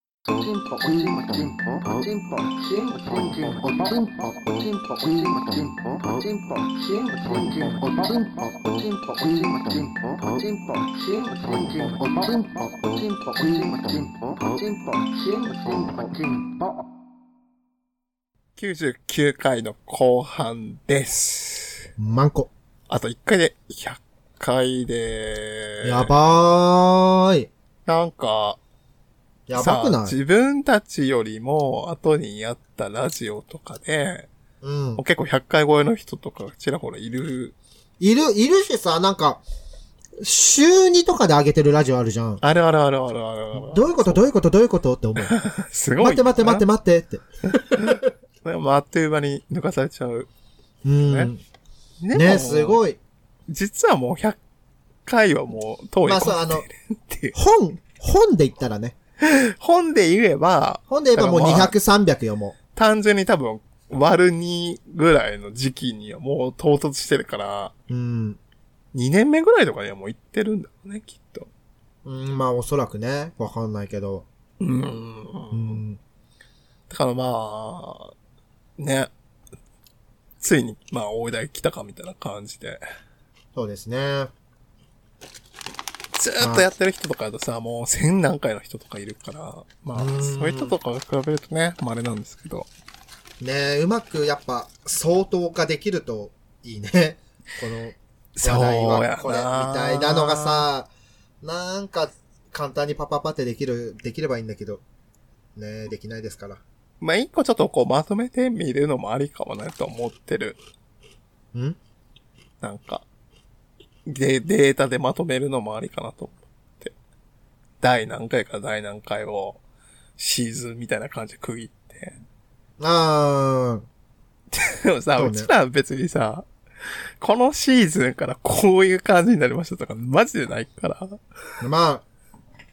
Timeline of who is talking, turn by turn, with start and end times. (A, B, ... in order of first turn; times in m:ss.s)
0:00.3-0:16.5 A
0:18.6-0:21.9 B
0:22.0-0:22.5 C
0:22.9-0:26.1 B
0:25.8-0:27.5 C
0:27.9-0:28.6 B
0:29.5-0:30.2 C
0:29.6-0:34.3 B
0:34.6-0:35.0 C
0:35.0-0:37.6 B
0:38.0-0:39.4 C
0:40.2-0:42.4 C
0:42.4-0:44.2 B
0:43.6-0:45.4 C
0:45.2-0:46.6 B
0:46.0-0:48.1 C
0:47.6-0:50.3 B
0:50.8-0:51.4 C
0:51.0-0:51.3 B
0:52.0-0:52.8 B
0:52.1-0:53.0 C
0:53.5-0:54.4 B
0:55.1-0:57.4 B
0:56.0-0:56.6 C
0:57.3-0:59.0 C
0:59.2-1:01.8 B
1:00.9-1:02.6 C
1:02.8-1:07.7 B
1:07.9-1:08.4 C
1:08.9-1:11.5 B
1:12.0-1:14.3 C
1:14.6-1:15.8 B
1:15.5-1:16.0 C
1:16.9-1:18.1 B
1:18.8-1:19.1 B
1:20.4-1:22.8 B
1:23.6-1:24.3 C
1:26.2-1:32.7 B
1:26.4-1:26.7 C
1:29.9-1:30.8 C
1:33.4-1:40.9 C
1:38.4-1:40.7 B
1:41.4-1:44.8 C
1:45.6-1:46.6 C
1:47.0-1:50.6 B
1:52.6-1:53.0 B
1:54.1-1:56.9 B
1:57.8-1:59.6 B
2:00.2-2:02.2 B
2:02.8-2:03.9 C
2:04.5-2:06.5 B
2:05.2-2:05.5 C
2:07.2-2:11.2 B
2:11.6-2:12.0 C